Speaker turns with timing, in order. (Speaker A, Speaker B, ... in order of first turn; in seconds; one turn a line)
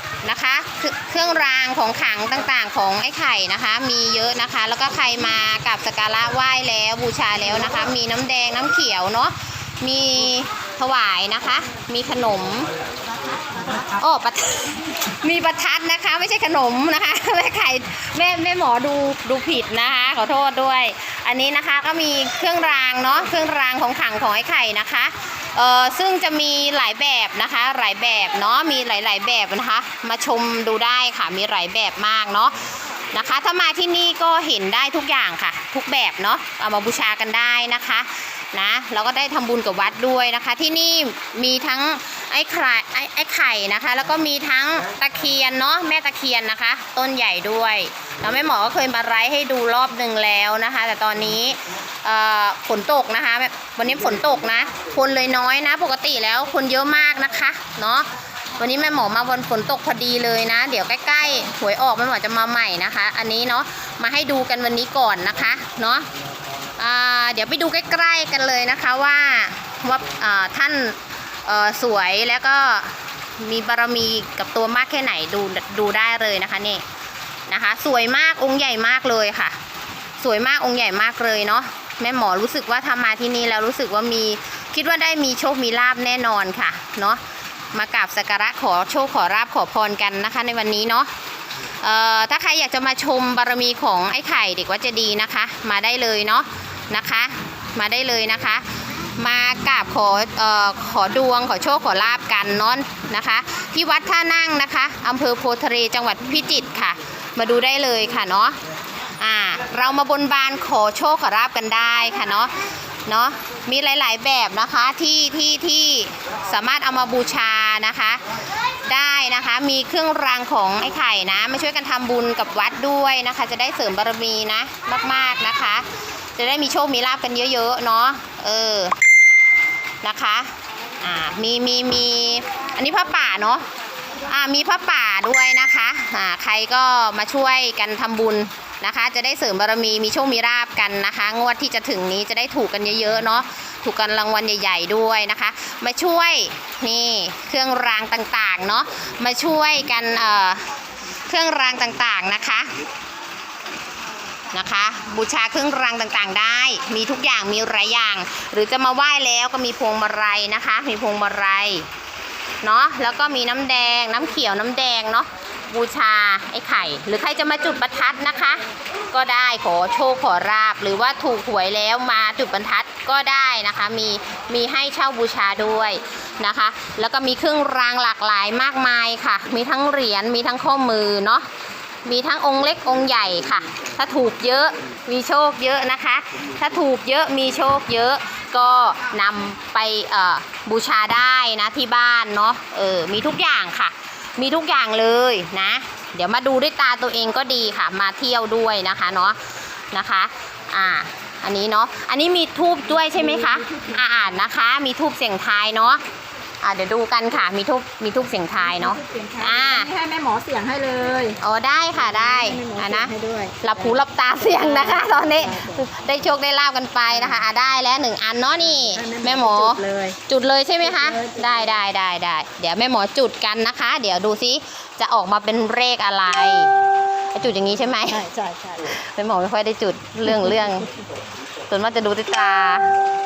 Speaker A: 0.2-12.7
Speaker A: 14.0-32.5
Speaker A: 33.1-58.1
Speaker A: 58.6-66.1
Speaker A: 66.8-76.8
Speaker A: 77.5-79.6
Speaker A: 80.2-87.2
Speaker A: 87.7-91.1
Speaker A: 91.8-98.6
Speaker A: 99.2-108.6
Speaker A: 109.2-112.5
Speaker A: 113.1-118.2
Speaker A: 118.8-128.9
Speaker A: 130.0-133.6
Speaker A: 134.3-150.7
Speaker A: 151.3-152.7
Speaker A: 154.5-161.9
Speaker A: 162.6-181.5
Speaker A: 182.0-199.4
Speaker A: 199.9-206.0
Speaker B: 203.1-204.2
Speaker A: 206.6-209.9
Speaker B: 208.6-211.4
Speaker A: 211.4-226.7
Speaker B: 212.1-215.8
Speaker B: 217.1-217.4
Speaker B: 218.7-220.2
Speaker B: 220.8-221.8
Speaker A: 227.3-228.2
Speaker B: 228.1-228.9
Speaker A: 228.9-230.9
Speaker B: 230.3-230.8
Speaker A: 231.7-232.9